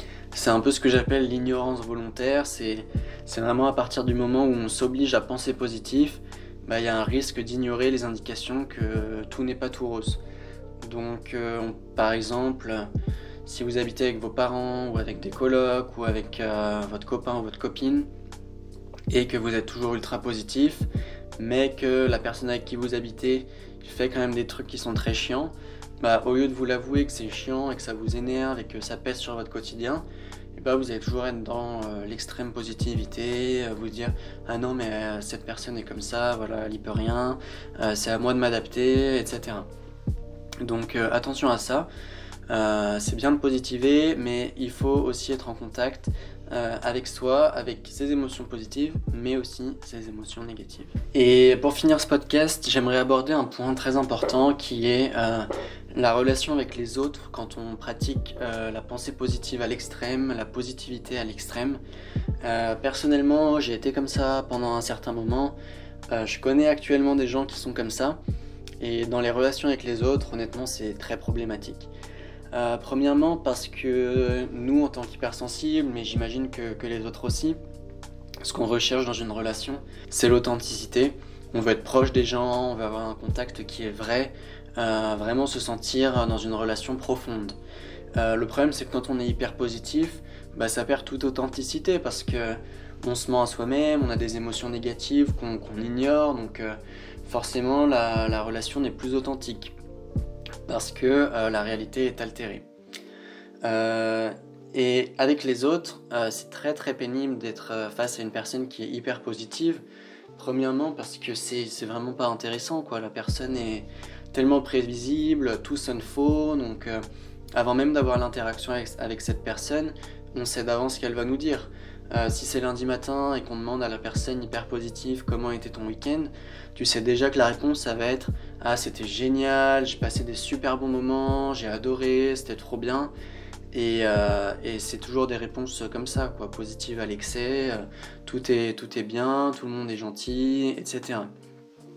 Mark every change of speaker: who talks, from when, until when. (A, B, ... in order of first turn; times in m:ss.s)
0:00.3-0:10.2 A
0:10.8-0:12.9 A
0:13.4-0:18.1 A
0:19.1-0:20.9 A
0:21.4-0:39.7 A
0:40.6-0:41.9 A
0:42.5-1:01.8 A
1:02.4-1:05.6 A
1:06.1-1:08.2 A
1:08.8-1:11.9 A
1:12.5-1:17.6 A
1:18.4-1:27.6 A
1:28.2-1:39.7 A
1:40.7-1:42.6 A
1:43.6-1:49.8 A
1:50.3-1:57.0 A
1:57.5-2:13.1 A
2:13.7-2:21.3 A